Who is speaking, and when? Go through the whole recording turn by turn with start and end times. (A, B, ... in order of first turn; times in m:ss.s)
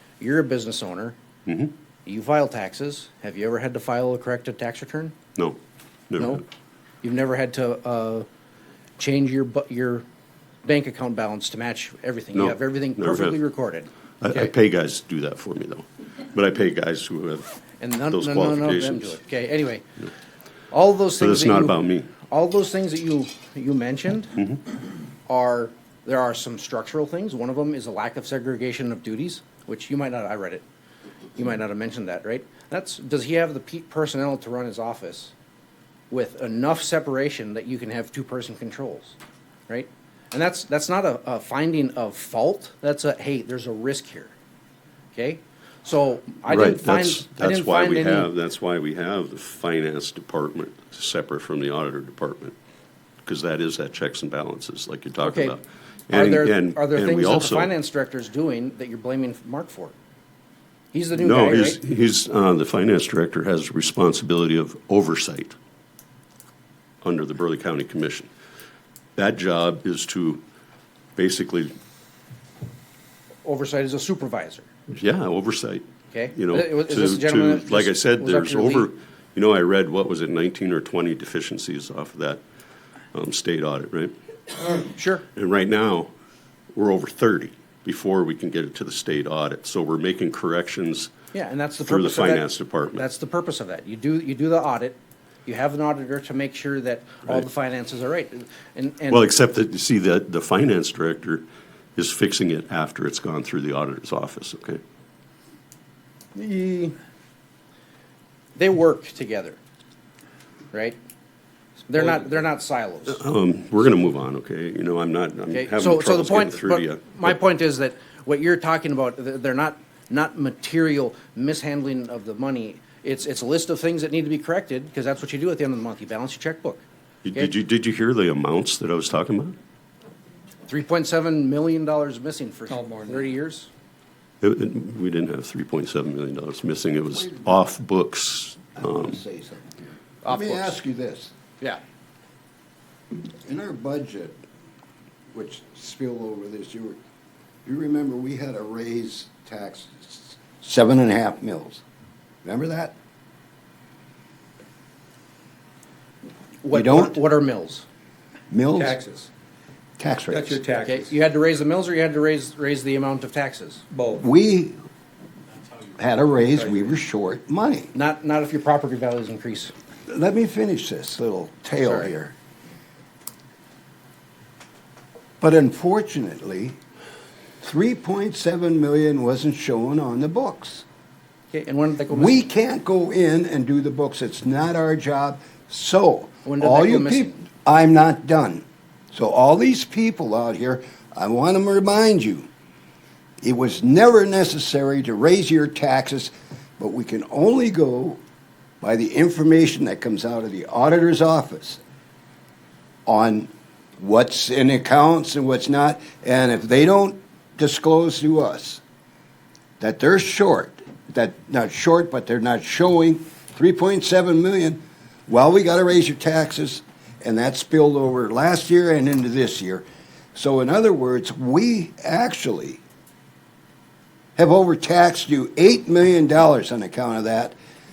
0:00.2-0:01.2 A
0:01.5-0:01.7 B
0:02.1-0:05.2 A
0:06.1-0:06.4 B
0:06.2-0:06.4 A
0:07.0-0:08.3 A
0:09.0-0:10.0 A
0:10.6-0:14.5 A
0:12.3-0:13.4 B
0:14.2-0:19.2 B
0:17.8-0:19.8 A
0:20.7-0:24.4 A
0:21.2-0:22.1 B
0:25.3-0:30.6 A
0:31.4-0:35.3 A
0:36.1-0:39.2 A
0:39.7-0:44.3 A
0:45.1-0:48.3 A
0:46.5-0:52.6 B
0:53.2-0:57.7 B
0:55.2-0:55.6 A
0:56.1-0:59.9 A
1:00.9-1:01.8 A
1:01.2-1:05.6 B
1:07.0-1:08.3 B
1:09.2-1:10.4 B
1:11.2-1:11.7 B
1:13.4-1:14.7 A
1:14.9-1:22.4 B
1:16.1-1:18.9 A
1:23.1-1:24.1 B
1:24.9-1:25.2 A
1:25.4-1:26.1 B
1:26.7-1:31.1 B
1:31.3-1:39.2 A
1:31.8-1:33.0 B
1:39.1-1:41.4 B
1:42.0-1:44.8 B
1:46.4-1:47.0 A
1:48.6-1:49.6 A
1:51.9-1:53.2 A
1:53.1-1:57.3 B
1:55.5-2:06.8 A
2:07.2-2:09.6 B
2:10.7-2:13.7 A
2:12.7-2:13.3 C
2:14.4-2:19.2 B
2:17.1-2:17.5 D
2:18.8-2:19.7 D
2:20.2-2:20.8 A
2:20.2-2:21.3 D
2:23.4-2:24.4 D
2:25.3-2:27.0 D
2:27.6-2:31.8 D
2:32.4-2:33.0 D
2:36.6-2:37.8 A
2:36.7-2:37.2 D
2:38.5-2:39.0 D
2:38.8-2:39.3 C
2:40.0-2:40.6 D
2:40.3-2:41.1 C
2:40.8-2:43.8 A
2:43.9-2:44.2 C
2:44.2-2:44.8 D
2:46.0-2:47.9 D
2:47.9-2:49.7 A
2:50.1-2:52.4 D
2:51.8-2:52.1 A
2:55.4-2:56.8 D
2:57.6-3:00.8 D
3:01.5-3:02.4 A
3:02.1-3:12.5 D
3:06.4-3:07.4 A
3:13.4-3:18.2 D
3:18.8-3:21.8 D
3:23.1-3:28.8 D
3:29.8-3:39.8 D
3:40.4-3:42.8 D
3:44.4-3:47.6 D